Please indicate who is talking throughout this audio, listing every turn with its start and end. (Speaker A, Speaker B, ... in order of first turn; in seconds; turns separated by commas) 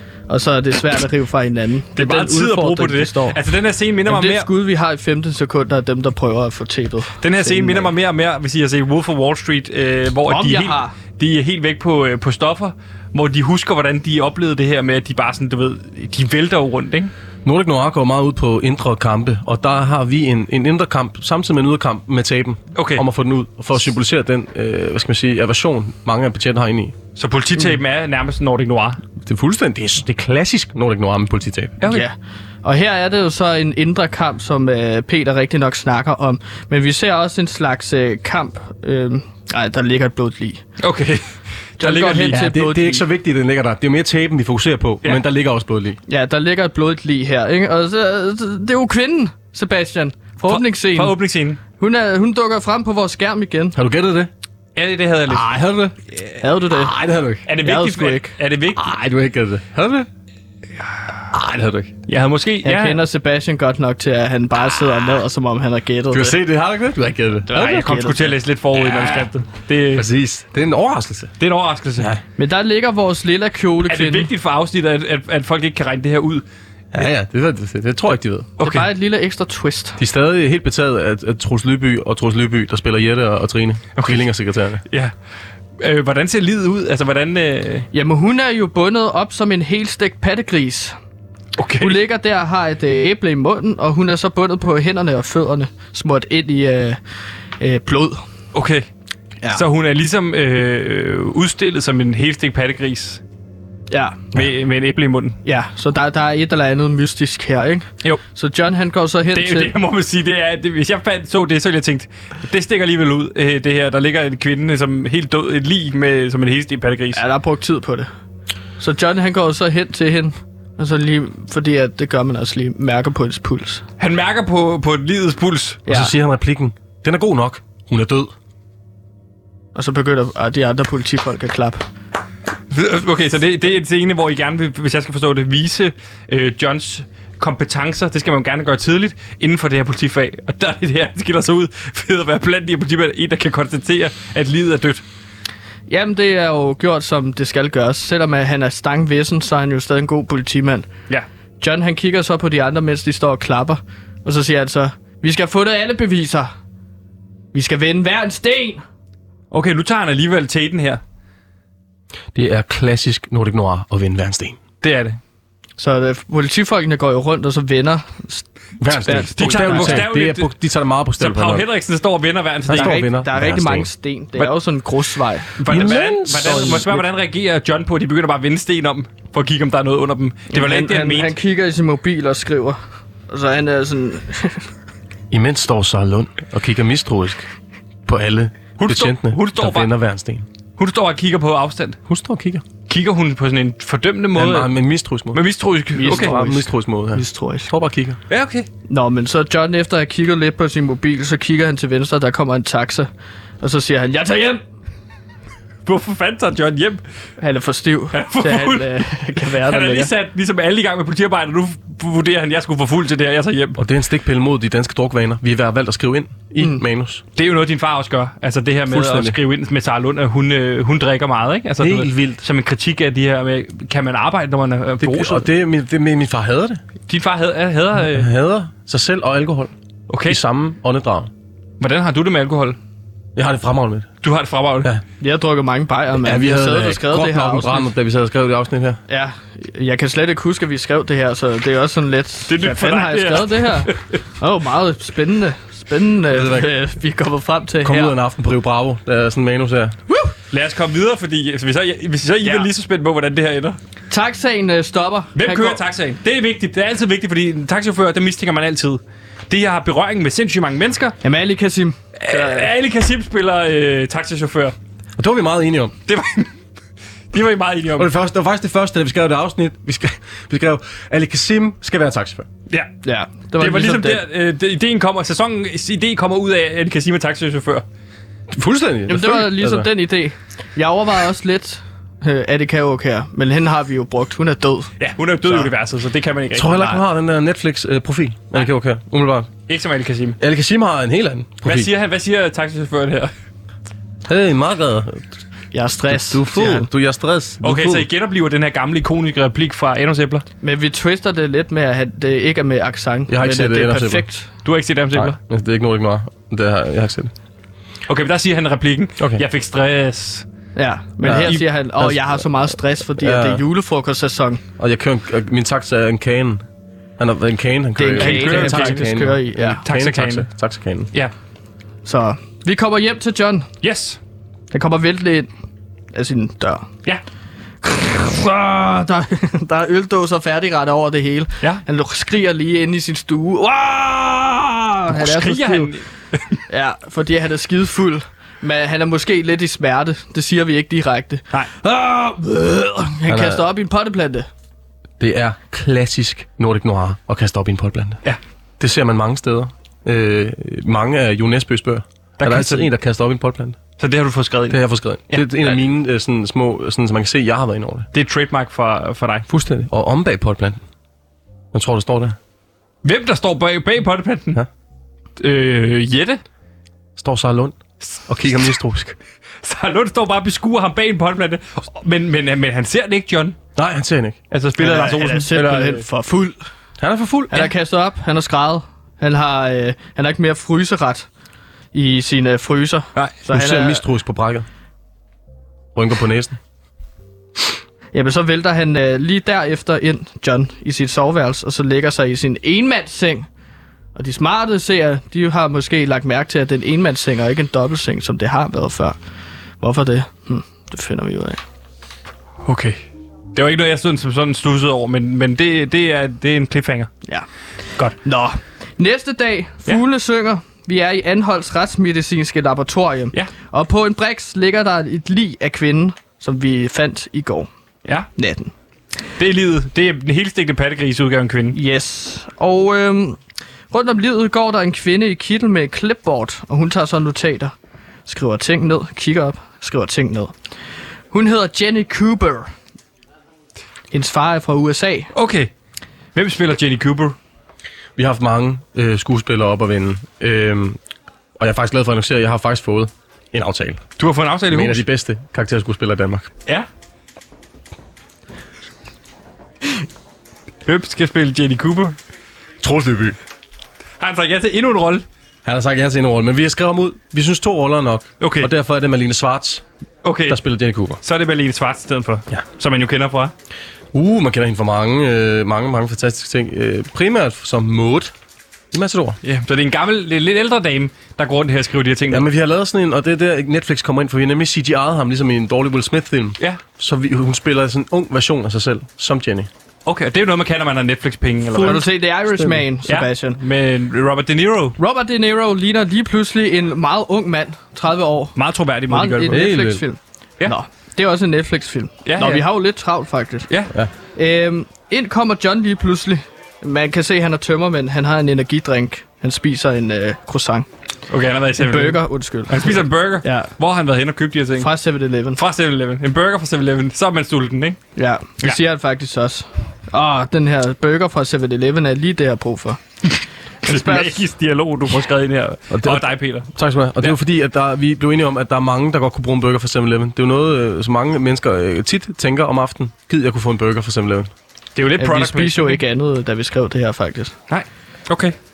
Speaker A: 0.3-3.4, Speaker B: 1.9-4.5, Speaker A: 4.1-7.9, Speaker B: 7.2-17.1, Speaker A: 10.3-10.9, Speaker C: 17.4-26.9, Speaker B: 22.7-23.0, Speaker B: 27.1-29.0, Speaker C: 29.2-31.8, Speaker B: 31.8-32.0, Speaker A: 31.9-40.6, Speaker B: 40.8-41.3, Speaker B: 41.8-42.4, Speaker A: 41.8-43.0, Speaker C: 42.3-46.0, Speaker A: 46.1-51.1, Speaker B: 50.5-51.6, Speaker A: 51.8-53.8, Speaker C: 53.7-54.3, Speaker B: 54.8-55.4, Speaker C: 55.3-56.0, Speaker A: 56.4-56.9, Speaker C: 56.7-57.5, Speaker B: 57.5-58.8, Speaker A: 57.6-58.4, Speaker C: 58.7-60.1, Speaker C: 61.3-61.9, Speaker B: 62.1-63.0, Speaker A: 62.6-66.3, Speaker C: 66.1-67.9, Speaker A: 67.5-68.3, Speaker B: 67.5-70.1, Speaker C: 68.8-69.3, Speaker C: 69.9-71.3, Speaker B: 71.4-72.1, Speaker A: 72.4-74.3, Speaker B: 73.9-76.4, Speaker C: 76.9-78.5, Speaker B: 78.6-78.9, Speaker A: 78.6-80.0, Speaker C: 80.0-84.8, Speaker B: 84.0-84.2, Speaker B: 85.8-87.9, Speaker A: 87.9-90.9, Speaker B: 91.6-92.0, Speaker A: 91.8-97.0, Speaker A: 97.6-98.2, Speaker B: 98.5-98.9, Speaker B: 99.5-103.2, Speaker A: 103.9-104.3, Speaker B: 104.3-105.4, Speaker A: 105.4-109.7, Speaker B: 109.3-117.2, Speaker A: 117.1-118.1, Speaker A: 118.8-123.8, Speaker B: 124.0-125.8, Speaker A: 125.9-126.1, Speaker C: 125.9-128.3, Speaker A: 129.7-131.8, Speaker B: 132.7-145.0, Speaker A: 145.9-150.9, Speaker A: 151.6-156.5, Speaker A: 157.5-158.8, Speaker B: 159.5-161.0, Speaker C: 162.3-164.6, Speaker B: 164.8-165.2, Speaker A: 165.8-170.1, Speaker C: 168.8-171.7, Speaker B: 169.3-170.5, Speaker B: 171.2-173.0, Speaker C: 172.7-173.9, Speaker A: 172.7-175.6, Speaker B: 175.6-181.3, Speaker C: 175.7-177.0, Speaker A: 176.4-177.0, Speaker A: 180.5-182.8, Speaker A: 183.3-184.7, Speaker C: 185.3-187.5, Speaker C: 188.1-190.4, Speaker B: 188.8-189.9, Speaker B: 190.8-192.0, Speaker C: 192.1-192.6, Speaker B: 192.9-194.7, Speaker C: 194.3-195.4, Speaker B: 195.3-196.3, Speaker A: 195.9-197.7, Speaker C: 196.0-198.2, Speaker B: 198.3-198.7, Speaker A: 198.9-203.1, Speaker A: 203.6-204.6, Speaker B: 205.8-207.0, Speaker A: 207.4-210.1, Speaker B: 208.1-213.8, Speaker C: 213.8-217.2, Speaker B: 217.3-225.4, Speaker C: 218.9-219.4, Speaker C: 221.8-222.4, Speaker C: 225.0-226.8, Speaker B: 227.1-228.3, Speaker C: 228.0-229.7, Speaker B: 230.1-230.4, Speaker C: 230.2-231.3, Speaker B: 231.8-232.8, Speaker C: 233.3-234.1, Speaker B: 234.2-234.9, Speaker A: 235.2-237.9, Speaker C: 236.2-239.0, Speaker A: 239.1-248.1, Speaker B: 242.5-244.0, Speaker C: 246.3-246.7, Speaker C: 247.8-249.9, Speaker A: 250.1-250.3, Speaker B: 250.5-253.8, Speaker A: 254.1-255.8, Speaker B: 255.3-261.1, Speaker A: 261.2-262.7, Speaker B: 262.2-264.7, Speaker C: 265.2-265.9, Speaker B: 266.1-266.5, Speaker B: 267.3-268.1, Speaker C: 267.9-272.5, Speaker A: 273.0-274.2, Speaker B: 273.6-277.9, Speaker C: 278.5-279.9, Speaker A: 279.1-284.9, Speaker B: 285.0-287.0, Speaker C: 286.5-289.5, Speaker B: 289.7-290.4, Speaker C: 290.4-291.9, Speaker B: 291.6-293.3, Speaker C: 294.3-295.4, Speaker A: 295.7-296.9, Speaker C: 296.1-298.1, Speaker B: 297.6-300.4, Speaker A: 300.6-304.5, Speaker C: 303.3-304.2, Speaker B: 304.6-305.4, Speaker C: 305.1-307.3, Speaker B: 308.1-310.4, Speaker C: 309.2-309.4, Speaker A: 310.8-314.6, Speaker C: 311.2-312.6, Speaker B: 311.3-311.6, Speaker C: 313.1-313.6, Speaker C: 314.8-316.6, Speaker C: 317.2-321.1, Speaker A: 317.9-319.8, Speaker B: 318.2-319.0, Speaker B: 319.8-320.5, Speaker A: 322.0-323.7, Speaker B: 323.8-324.2, Speaker A: 324.7-325.5, Speaker A: 326.1-326.9, Speaker A: 327.8-335.9, Speaker B: 335.1-336.6, Speaker A: 336.7-344.5, Speaker C: 343.3-343.6, Speaker C: 345.2-348.2, Speaker C: 348.8-353.8, Speaker B: 352.4-352.9, Speaker B: 354.0-355.6, Speaker C: 354.7-358.1, Speaker B: 358.1-359.5, Speaker C: 359.5-360.8, Speaker C: 361.7-362.4, Speaker B: 363.0-364.6, Speaker B: 365.4-366.4, Speaker C: 367.2-369.2, Speaker B: 369.6-373.6, Speaker C: 373.8-374.4, Speaker B: 374.5-376.0, Speaker A: 374.8-376.6, Speaker C: 377.0-377.7, Speaker A: 377.5-381.3, Speaker A: 381.9-384.0, Speaker C: 383.5-384.7, Speaker C: 385.9-386.6, Speaker A: 388.1-393.5, Speaker A: 394.1-399.1, Speaker A: 399.8-401.6, Speaker B: 402.6-403.0, Speaker B: 403.5-407.1, Speaker A: 408.2-417.7, Speaker A: 418.4-418.7, Speaker B: 419.4-421.8, Speaker A: 421.7-423.4, Speaker A: 423.9-427.7, Speaker A: 428.2-430.5, Speaker A: 431.3-432.7, Speaker A: 434.1-435.3, Speaker B: 435.3-435.7, Speaker B: 436.3-437.4, Speaker C: 438.2-441.0, Speaker C: 441.6-444.0, Speaker B: 444.2-445.0, Speaker C: 444.7-446.5, Speaker B: 450.9-452.1, Speaker C: 452.8-453.4, Speaker B: 454.2-455.2, Speaker C: 455.6-459.8, Speaker B: 458.4-458.7, Speaker B: 460.2-460.6, Speaker C: 460.5-461.2, Speaker B: 461.2-463.5, Speaker C: 464.1-468.3, Speaker C: 468.9-469.4, Speaker B: 469.4-472.5, Speaker C: 472.3-479.7, Speaker B: 480.1-482.1, Speaker C: 481.7-482.8, Speaker A: 481.8-483.6, Speaker B: 483.1-485.0, Speaker A: 485.0-493.7, Speaker B: 488.6-489.6, Speaker C: 489.5-490.0, Speaker B: 492.2-492.6, Speaker A: 494.3-500.9, Speaker B: 501.3-504.9, Speaker A: 501.8-503.7, Speaker A: 504.8-505.6, Speaker B: 505.6-508.0, Speaker A: 508.1-513.0, Speaker A: 513.8-514.4, Speaker B: 513.9-516.7, Speaker C: 515.9-524.5, Speaker B: 525.0-526.0, Speaker A: 525.2-527.5, Speaker B: 527.7-528.5